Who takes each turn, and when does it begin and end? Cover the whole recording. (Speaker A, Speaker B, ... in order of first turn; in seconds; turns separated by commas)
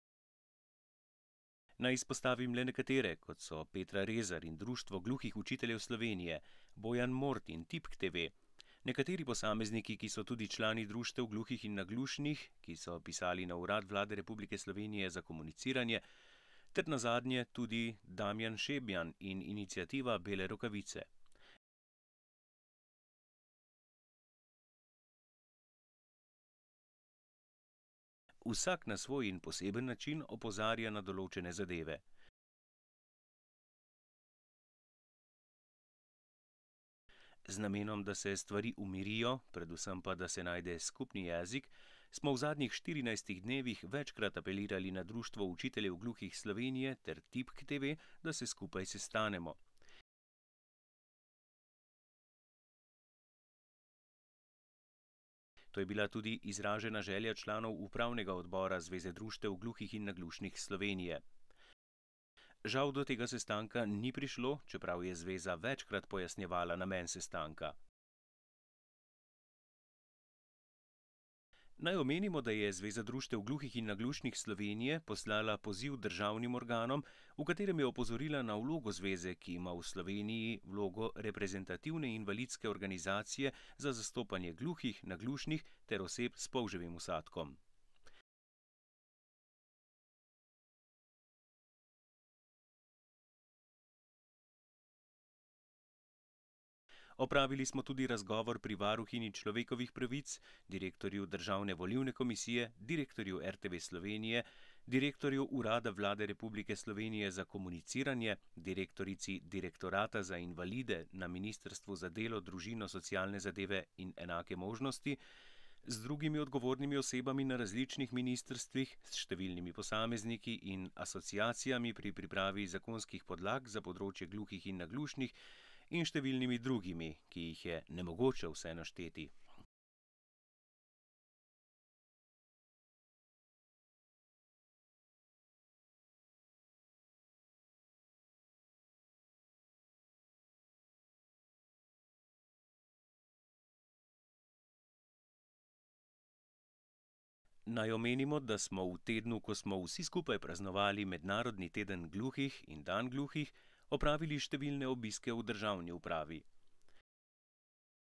Speaker A: 1.8-16.1, Speaker A: 16.7-21.1, Speaker A: 28.4-32.0, Speaker A: 37.5-49.6, Speaker A: 55.7-61.2, Speaker A: 62.6-67.8, Speaker A: 71.8-87.6, Speaker A: 97.2-115.2, Speaker A: 115.8-125.3, Speaker A: 125.9-129.3, Speaker A: 147.7-156.4